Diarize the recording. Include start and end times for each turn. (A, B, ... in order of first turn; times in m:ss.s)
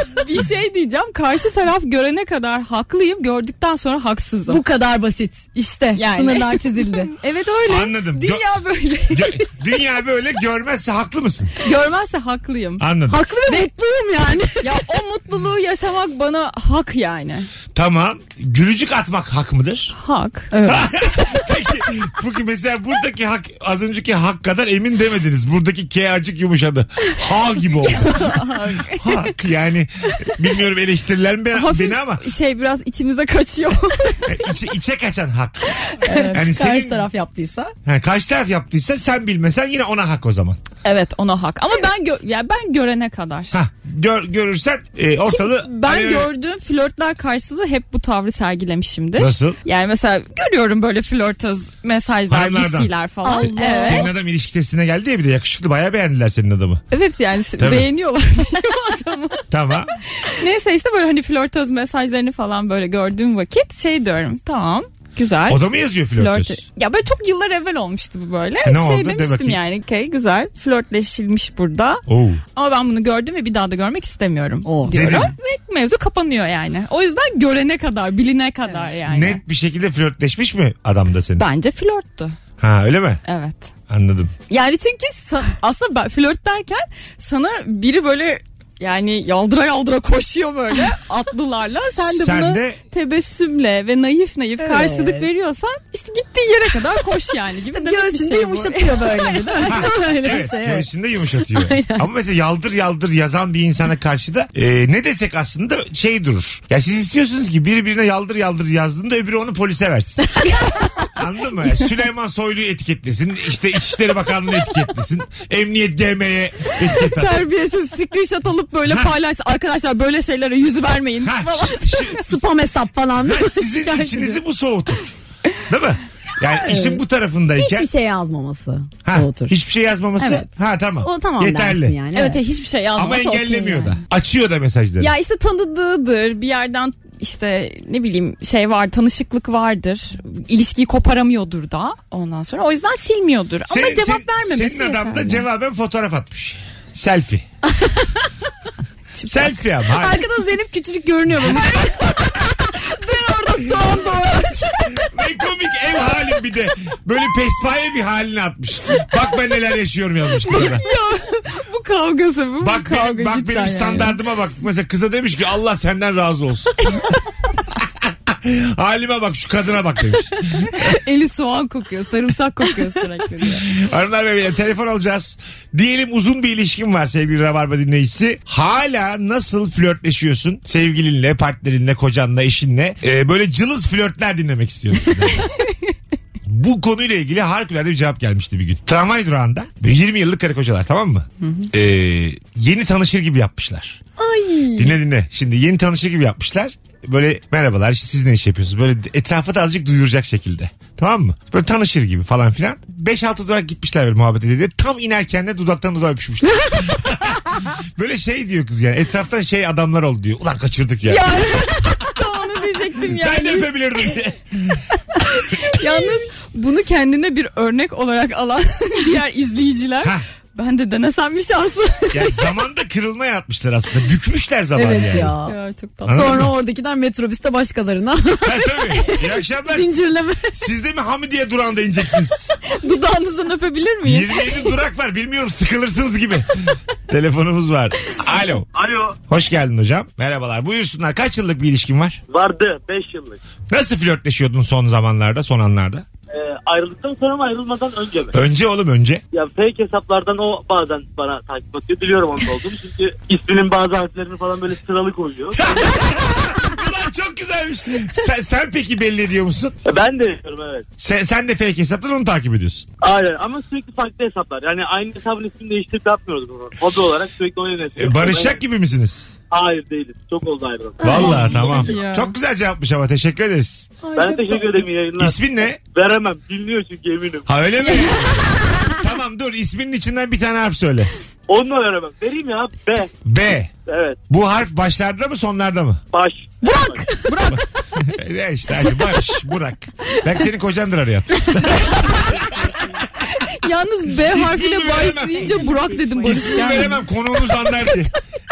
0:00.2-0:04.6 A
0:04.5-0:07.1 B
0:05.9-0:09.5 A
0:07.7-0:08.4 C
0:09.1-0:11.5 C
0:11.6-0:12.8 A
0:12.8-0:13.2 C
0:13.1-0:14.7 B
0:13.4-0:13.7 A
0:14.6-0:17.5 A
0:17.7-0:19.9 C
0:19.9-0:20.5 A
0:20.5-0:20.9 B
0:20.6-0:28.4 C
0:27.8-0:29.3 A
0:29.0-0:32.2 C
0:31.5-0:34.4 A
0:34.2-0:37.0 C
0:36.0-0:36.4 A
0:36.1-0:37.7 B
0:37.8-0:40.6 C
0:40.8-0:43.6 A
0:43.5-0:46.3 C
0:45.2-0:54.1 A
0:49.2-0:49.6 C
0:52.3-0:56.8 C
0:53.2-0:54.1 B
0:56.9-0:59.4 A
0:57.6-0:57.9 C
0:59.5-0:59.9 C
1:00.2-1:12.0 A
1:05.5-1:06.6 C
1:08.6-1:09.6 C
1:12.1-1:12.4 C
1:12.6-1:19.4 A
1:14.6-1:15.3 B
1:14.9-1:15.3 C
1:19.0-1:21.4 C
1:21.4-1:22.4 A
1:22.6-1:23.2 C
1:23.2-1:23.7 A
1:23.9-1:24.3 C
1:24.5-1:39.8 A
1:32.0-1:32.8 C
1:34.6-1:35.3 B
1:37.7-1:40.8 B
1:39.6-1:50.3 C
1:41.4-1:42.0 B
1:50.4-1:50.9 B
1:51.2-1:57.4 C
1:56.9-2:02.2 A
1:58.8-1:59.1 C
2:01.2-2:02.4 C
2:02.2-2:04.4 B
2:03.2-2:05.0 C
2:05.7-2:07.9 C
2:06.5-2:07.0 B
2:07.6-2:09.6 B
2:09.0-2:12.0 C
2:10.2-2:10.5 B
2:11.0-2:12.4 B
2:12.1-2:14.0 A
2:12.9-2:15.1 C
2:15.0-2:25.4 A
2:23.7-2:27.4 C
2:27.8-2:28.1 B
2:29.2-2:29.6 A
2:29.2-2:30.2 C
2:29.9-2:35.1 B
2:31.3-2:31.7 C
2:33.0-2:34.5 A
2:35.0-2:40.8 C
2:40.4-2:44.2 A
2:42.6-2:46.8 C
2:48.0-2:50.9 C
2:50.7-2:53.7 A
2:53.7-3:05.4 C
3:05.4-3:05.7 A
3:06.4-3:14.0 C
3:11.4-3:11.7 A
3:14.2-3:14.9 B
3:14.8-3:31.4 C
3:31.0-3:34.1 A
3:33.0-3:34.8 C
3:35.3-3:42.4 A
3:42.1-3:45.3 C
3:44.8-3:45.5 B
3:45.4-3:46.5 A
3:46.0-3:46.6 C
3:46.1-3:50.6 B
3:48.4-3:52.5 C
3:52.7-3:54.7 A
3:54.0-3:58.7 C
3:58.7-3:59.2 D
3:59.3-4:02.2 C
4:02.3-4:03.4 D
4:03.7-4:06.0 C
4:06.3-4:08.4 D
4:08.3-4:09.2 C
4:09.3-4:16.0 D
4:15.6-4:19.8 C
4:19.8-4:20.8 D
4:21.0-4:22.9 C
4:23.0-4:28.6 D
4:28.0-4:29.3 C
4:29.5-4:31.9 D
4:31.0-4:33.9 C
4:31.0-4:31.4 B
4:31.1-4:32.3 A
4:34.0-4:34.9 B
4:34.2-4:37.5 D
4:35.2-4:35.8 C
4:37.5-4:41.1 C
4:41.5-4:43.1 D
4:43.2-4:43.7 C
4:43.8-4:44.2 D
4:44.3-4:46.0 C
4:46.1-4:47.0 D
4:46.6-4:47.5 B
4:47.2-4:47.6 A
4:47.5-4:53.0 C
4:53.3-4:57.1 A
4:54.1-4:58.1 C